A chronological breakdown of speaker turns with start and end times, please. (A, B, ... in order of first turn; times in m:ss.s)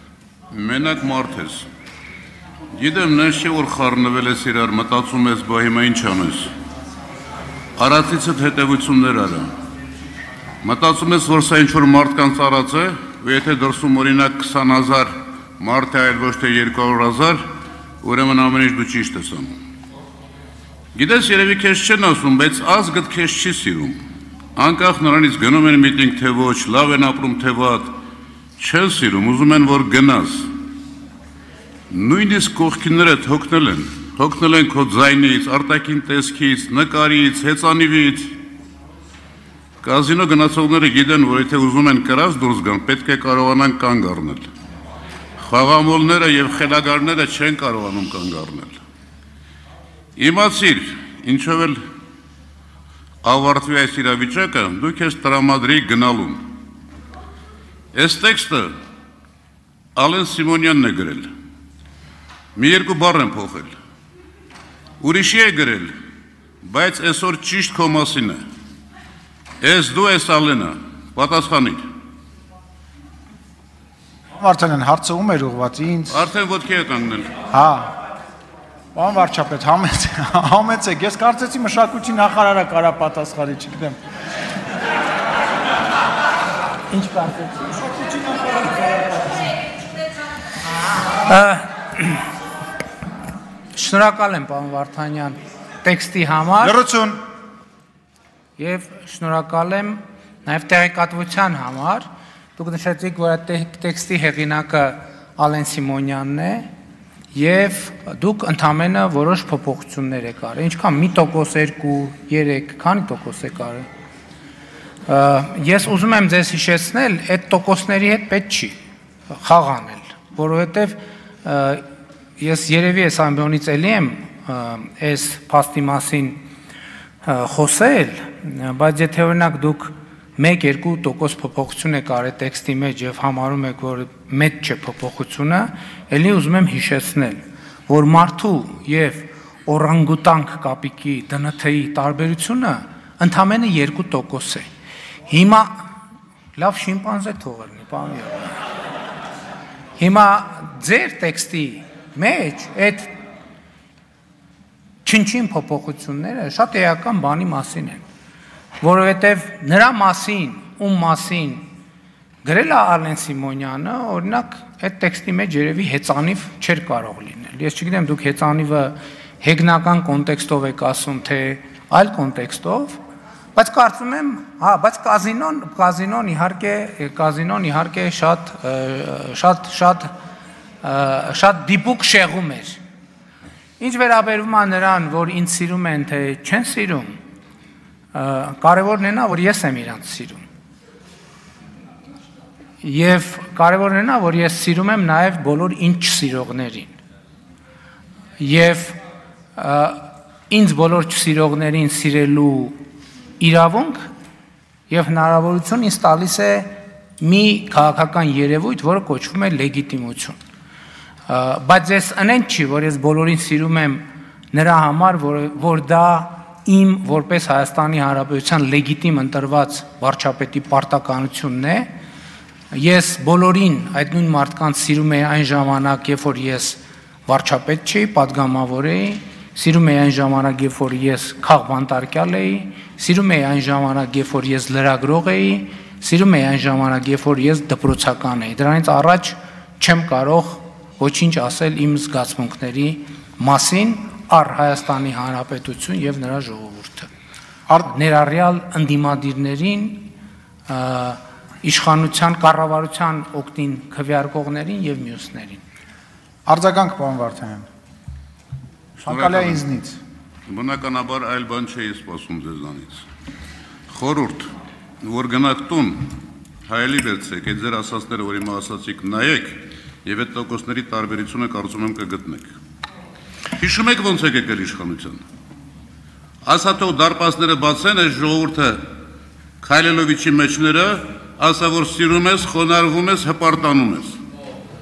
0:00.5-0:01.7 A
0:02.7-0:06.5 A
0:07.8-0:09.5 A
0:10.6-0:17.4 A
0:18.0-0:19.6 A
0:20.9-0:24.0 A
0:24.6-0:28.0 A
0:28.6-0:30.6 A
0:31.9-0:38.5 A
0:39.8-0:44.4 A
0:45.4-0:48.8 A
0:50.2-0:51.8 A
0:53.2-0:56.6 A
0:57.9-0:58.7 A
1:00.0-1:01.3 A
1:02.6-1:03.7 A
1:05.0-1:05.9 A
1:06.6-1:08.4 A
1:09.6-1:11.8 A
1:14.4-1:16.2 B
1:16.1-1:17.3 A
1:17.5-1:17.9 B
1:19.0-1:24.0 B
1:26.9-1:29.4 B
1:31.3-1:32.2 C
1:33.7-1:36.8 C
1:36.6-1:37.2 B
1:38.6-1:42.0 C
1:42.6-1:46.7 C
1:47.3-1:53.9 C
1:55.1-1:58.7 C
1:59.4-2:01.8 C
2:02.4-2:06.4 C
2:07.2-2:24.6 C
2:25.3-2:25.7 C
2:26.6-2:28.6 C
2:30.0-2:33.1 C
2:35.0-2:38.0 C
2:38.8-2:41.6 C
2:42.4-2:53.0 C
2:53.6-3:00.1 C
3:00.8-3:02.8 C
3:03.8-3:07.2 C
3:08.1-3:10.4 C
3:12.8-3:16.9 C
3:18.4-3:19.0 C
3:19.6-3:22.8 C
3:23.4-3:24.1 C
3:24.9-3:30.4 C
3:31.3-3:41.9 C
3:42.7-4:07.1 C
4:07.9-4:10.1 C
4:10.7-4:15.6 C
4:16.5-4:17.7 B
4:19.0-4:19.6 A
4:19.0-4:20.0 B
4:20.5-4:23.0 A
4:23.9-4:32.5 A
4:33.6-4:35.2 A
4:36.4-4:39.0 A
4:39.6-4:44.2 A